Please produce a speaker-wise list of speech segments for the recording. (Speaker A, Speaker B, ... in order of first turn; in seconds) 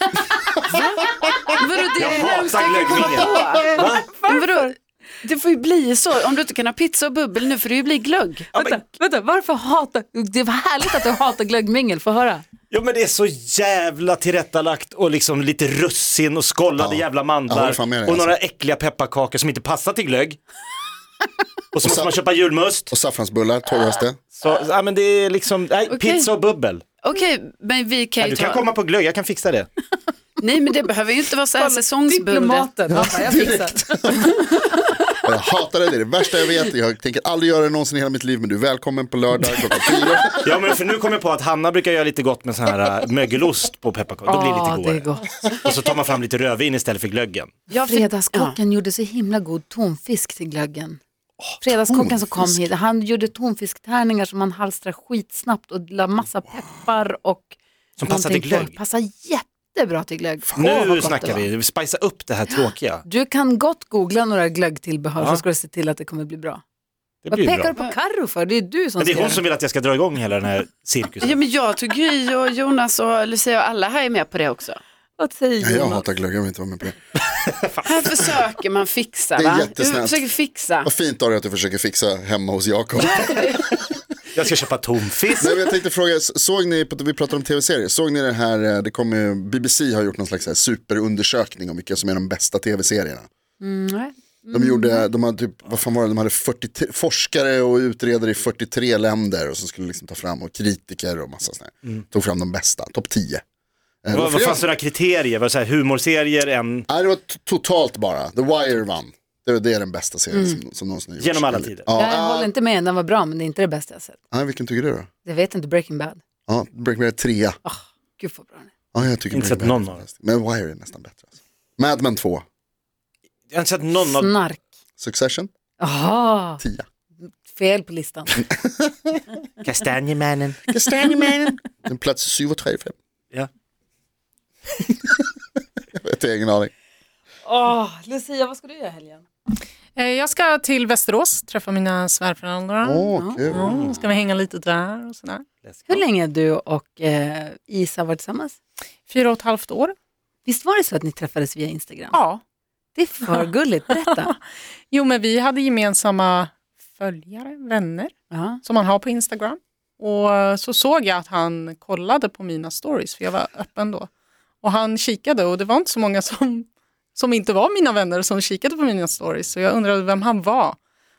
Speaker A: 0.6-8.5, 25.9-26.3, 27.0-28.6, 30.4-32.7, 47.7-48.6, 71.2-74.8, 77.8-80.9, 83.0-83.7
Speaker B: 1.7-4.7, 8.5-12.4, 31.5-35.2, 44.3-45.3, 47.8-51.0, 51.6-61.5, 62.6-66.6, 67.3-69.4, 75.2-76.0, 93.6-95.0, 110.3-110.6, 111.9-114.2, 115.2-116.2, 117.6-118.7, 124.0-124.6, 125.8-126.6, 127.4-128.4, 137.4-139.2, 143.1-143.4, 145.9-148.6, 150.4-152.2, 152.9-154.3, 158.3-158.6
Speaker C: 1.9-4.1, 8.5-8.8, 12.7-20.4, 21.7-22.9, 24.3-26.8, 28.2-29.7, 40.4-45.0, 45.6-47.5, 58.0-58.7, 60.5-63.0, 65.2-65.4, 67.2-67.7, 69.0-71.4, 77.3-77.9, 84.3-85.5, 104.1-106.9, 111.2-111.9, 119.3-120.0, 123.5-124.4, 129.6-131.5, 143.5-144.0, 145.6-146.0
Speaker D: 16.8-18.3, 21.8-22.1, 22.9-24.2, 32.9-34.3, 35.2-40.5, 51.9-52.6, 75.6-77.0, 79.3-80.3, 80.8-83.5, 85.4-93.3, 94.5-103.4, 104.0-104.7, 106.9-112.5, 114.3-115.1, 116.5-117.6, 118.9-122.4, 125.0-125.5, 126.6-126.8, 128.6-129.2, 130.7-132.9, 135.9-136.7, 142.8-143.7
Speaker E: 139.9-145.4, 149.1-149.9, 152.1-152.4, 154.1-154.4, 154.9-158.1, 158.6-164.1, 164.6-170.8